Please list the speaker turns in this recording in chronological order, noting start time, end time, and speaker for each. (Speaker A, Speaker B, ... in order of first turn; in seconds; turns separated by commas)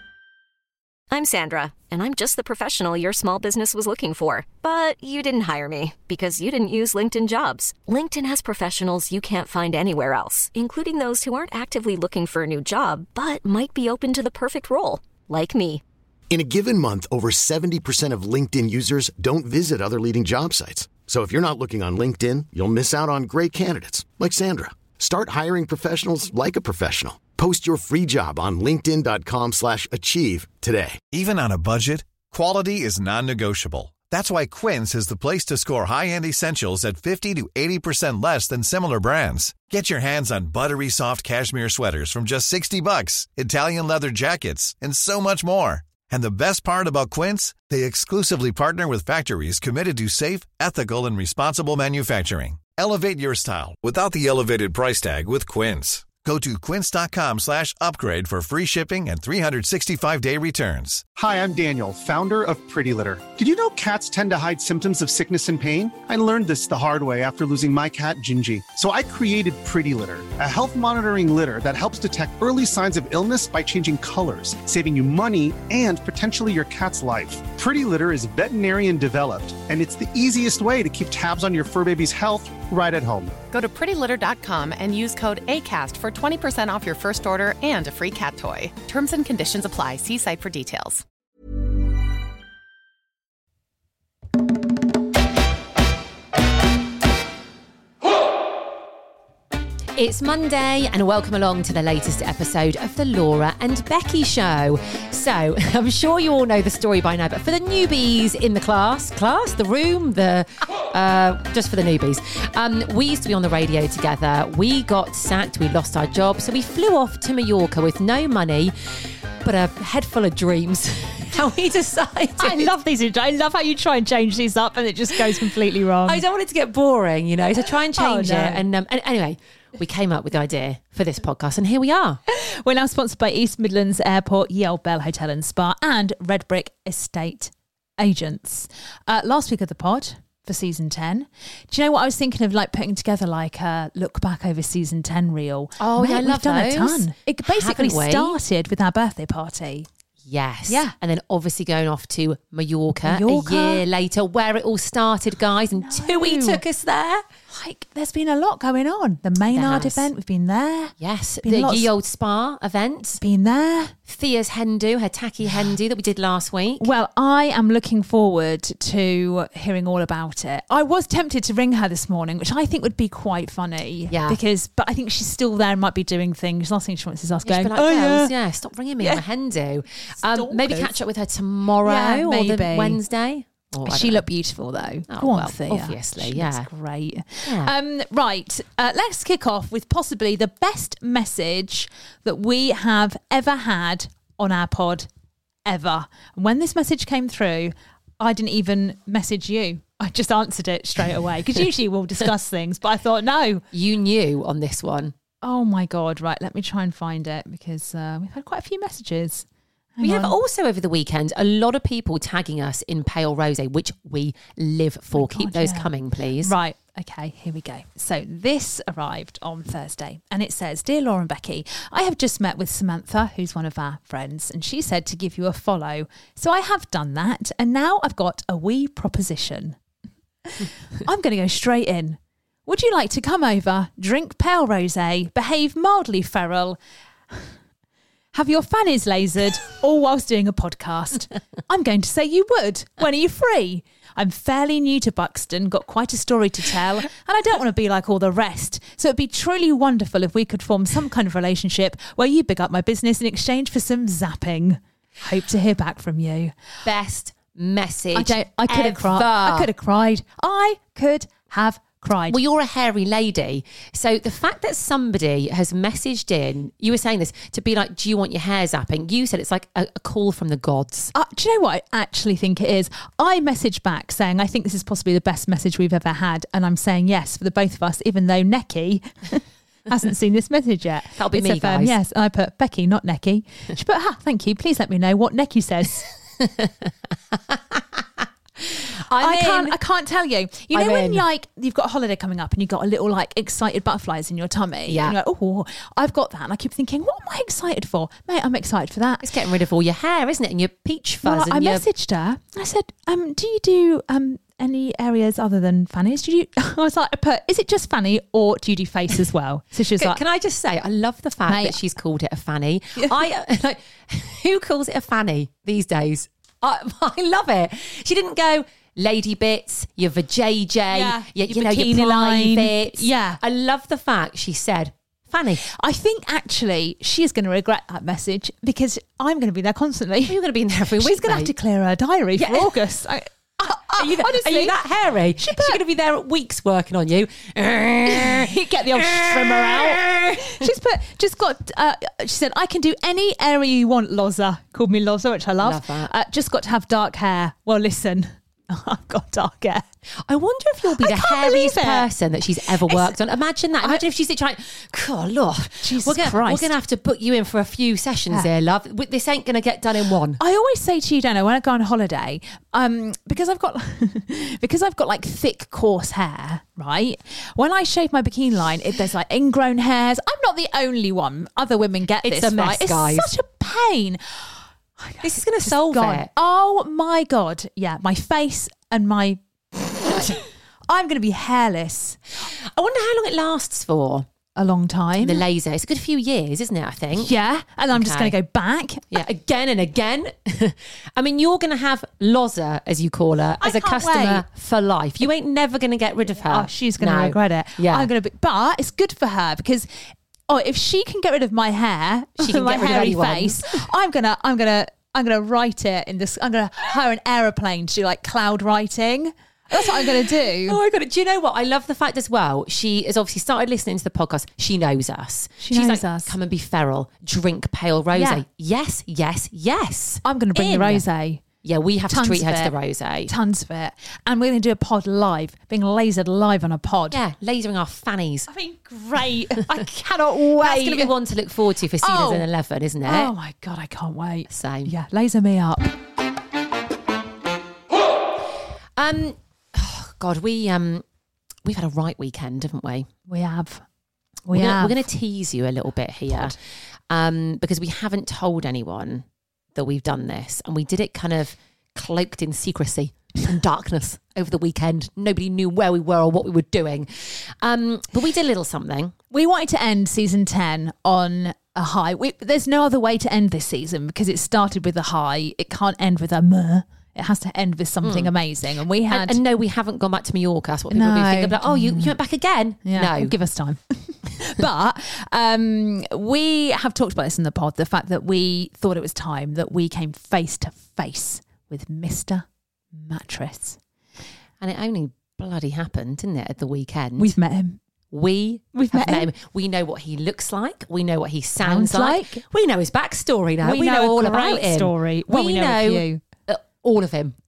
Speaker A: 1.1-15.8, Speaker B: 16.3-31.0, Speaker C: 31.1-61.0, Speaker D: 61.2-83.4, Speaker E: 83.5-91.0, Speaker F: 100.0-118.7, Speaker F: 119.4-122.7, Speaker G: 122.4-126.2, Speaker F: 126.0-132.2, Speaker G: 127.9-128.7, Speaker G: 132.3-149.9, Speaker F: 145.8-148.4, Speaker F: 150.3-157.2, Speaker G: 150.7-150.9, Speaker G: 153.1-153.8, Speaker G: 155.8-156.6, Speaker G: 157.5-161.9, Speaker F: 159.5-160.1, Speaker F: 161.0-163.2, Speaker G: 163.2-163.9, Speaker F: 164.1-166.9, Speaker G: 166.8-178.3, Speaker F: 174.1-174.4, Speaker F: 177.4-184.3, Speaker G: 180.3-180.9, Speaker G: 181.8-183.0, Speaker G: 183.8-195.1, Speaker F: 185.1-186.7, Speaker F: 187.4-187.7, Speaker G: 195.7-203.7, Speaker F: 203.7-205.2, Speaker G: 205.4-210.4, Speaker F: 210.0-216.5, Speaker G: 215.2-215.9, Speaker G: 216.4-229.8, Speaker G: 230.4-236.8, Speaker G: 238.3-256.6, Speaker F: 256.8-259.7, Speaker G: 258.1-262.4, Speaker F: 262.3-271.1, Speaker G: 271.1-286.1, Speaker F: 281.1-281.9, Speaker F: 286.4-286.7, Speaker F: 287.5-289.8, Speaker G: 289.2-299.3, Speaker F: 290.7-291.3, Speaker F: 294.9-295.2, Speaker F: 299.2-301.8, Speaker G: 301.2-310.2, Speaker F: 310.0-325.6, Speaker G: 311.5-311.8, Speaker G: 313.0-313.2, Speaker G: 320.9-323.4, Speaker G: 325.6-330.4, Speaker F: 330.2-331.5, Speaker G: 331.0-334.8, Speaker F: 332.4-332.8, Speaker F: 334.0-340.5, Speaker G: 335.4-335.8, Speaker G: 338.1-349.9, Speaker F: 345.6-346.1, Speaker F: 350.2-360.4, Speaker G: 350.9-352.1, Speaker G: 352.8-353.2, Speaker G: 355.8-356.7, Speaker G: 360.4-379.4, Speaker F: 372.2-373.3, Speaker F: 375.2-376.3, Speaker G: 380.0-382.2, Speaker F: 382.4-384.3, Speaker G: 384.6-385.4, Speaker F: 385.2-387.3, Speaker G: 387.1-389.1, Speaker F: 387.9-388.4, Speaker F: 389.1-398.1, Speaker G: 393.6-394.5, Speaker G: 396.5-399.9, Speaker G: 400.5-410.8, Speaker F: 402.4-403.8, Speaker F: 409.7-421.0, Speaker G: 415.6-416.3, Speaker G: 418.1-418.4, Speaker G: 420.2-421.4, Speaker F: 421.6-423.3, Speaker G: 422.1-422.7, Speaker G: 423.3-427.2, Speaker F: 427.1-428.5, Speaker G: 428.5-431.1, Speaker F: 430.6-433.3, Speaker G: 432.0-432.5, Speaker G: 433.1-435.9, Speaker F: 434.5-434.9, Speaker F: 439.0-441.0, Speaker F: 441.6-443.1, Speaker G: 443.3-443.8, Speaker G: 444.5-445.0, Speaker F: 444.5-446.6, Speaker F: 447.1-459.1, Speaker G: 459.3-469.4, Speaker F: 468.0-468.3, Speaker F: 469.1-473.4, Speaker G: 470.9-472.1, Speaker G: 472.9-483.8, Speaker F: 484.6-487.3, Speaker G: 487.2-487.8, Speaker F: 488.1-497.4, Speaker G: 488.7-489.3, Speaker G: 491.6-492.4, Speaker G: 493.6-496.2